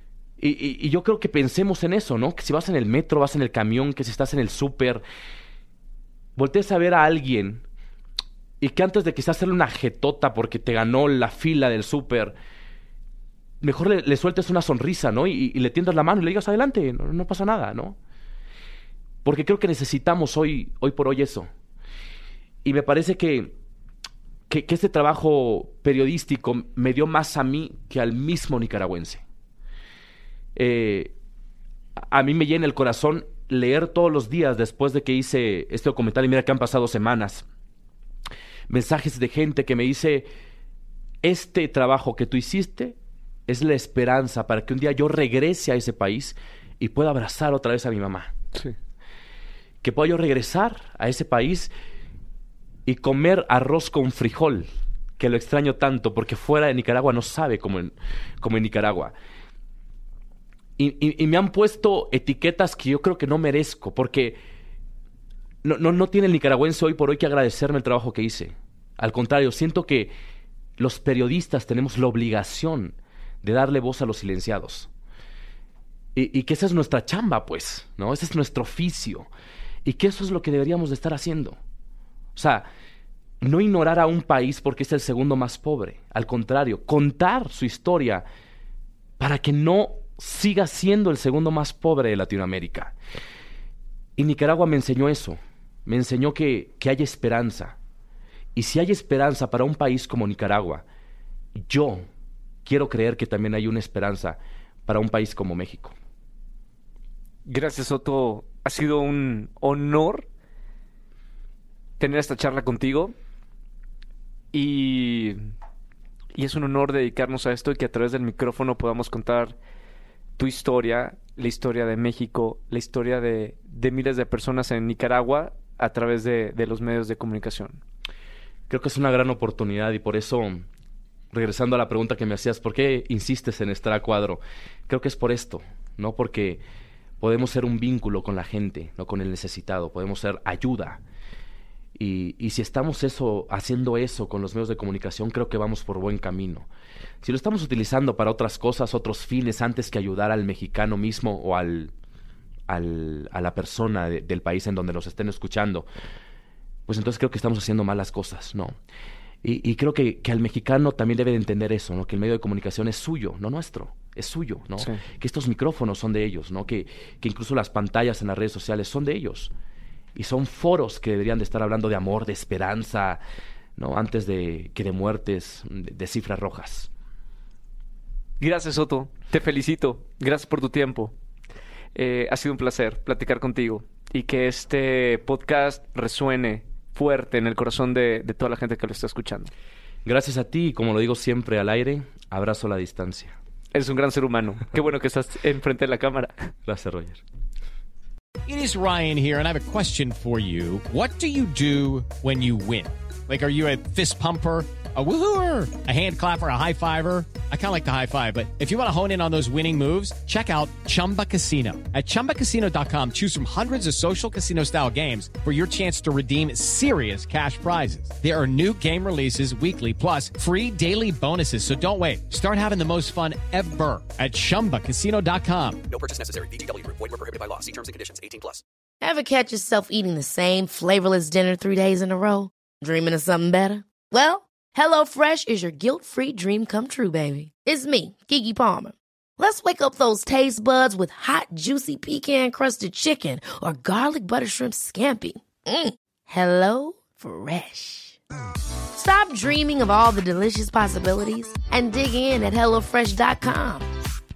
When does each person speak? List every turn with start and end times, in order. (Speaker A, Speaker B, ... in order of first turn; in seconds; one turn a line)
Speaker A: 0.4-5.0
Speaker A: 6.4-7.6
Speaker A: 8.6-12.4
Speaker A: 13.6-18.0
Speaker A: 19.2-21.5
Speaker A: 22.6-23.5
Speaker A: 24.5-29.2
Speaker A: 30.6-31.1
Speaker A: 32.0-37.5
Speaker A: 38.7-40.3
Speaker A: 41.2-48.3
Speaker A: 49.8-51.7
Speaker A: 52.9-59.1
Speaker A: 60.8-64.4
Speaker A: 65.6-70.1
Speaker A: 70.8-74.9
Speaker A: 76.2-79.3
Speaker A: 79.8-81.6
Speaker A: 82.4-82.7
Speaker A: 83.4-88.2
Speaker A: 89.2-93.0
Speaker A: 94.2-97.8
Speaker A: 98.5-100.8
Speaker A: 101.5-102.1
Speaker A: 102.7-106.0
Speaker B: 107.5-110.3
Speaker B: 112.0-113.2
Speaker B: 114.5-115.5
Speaker B: 116.3-119.6
Speaker B: 120.4-127.8
Speaker A: 128.7-130.7
Speaker A: 131.3-136.6
Speaker A: 137.2-141.0
Speaker A: 141.9-146.7
Speaker A: 147.2-151.9
Speaker A: 152.7-155.9
Speaker A: 156.9-158.8
Speaker A: 159.4-169.5
Speaker A: 170.2-173.2
Speaker A: 173.8-176.9
Speaker B: 178.4-181.1
Speaker B: 181.9-189.5
Speaker A: 190.1-193.3
Speaker B: 193.7-196.5
Speaker A: 196.7-197.2
Speaker C: 198.5-225.8
Speaker D: 225.9-228.6
Speaker E: 229.0-248.2
Speaker E: 248.9-253.9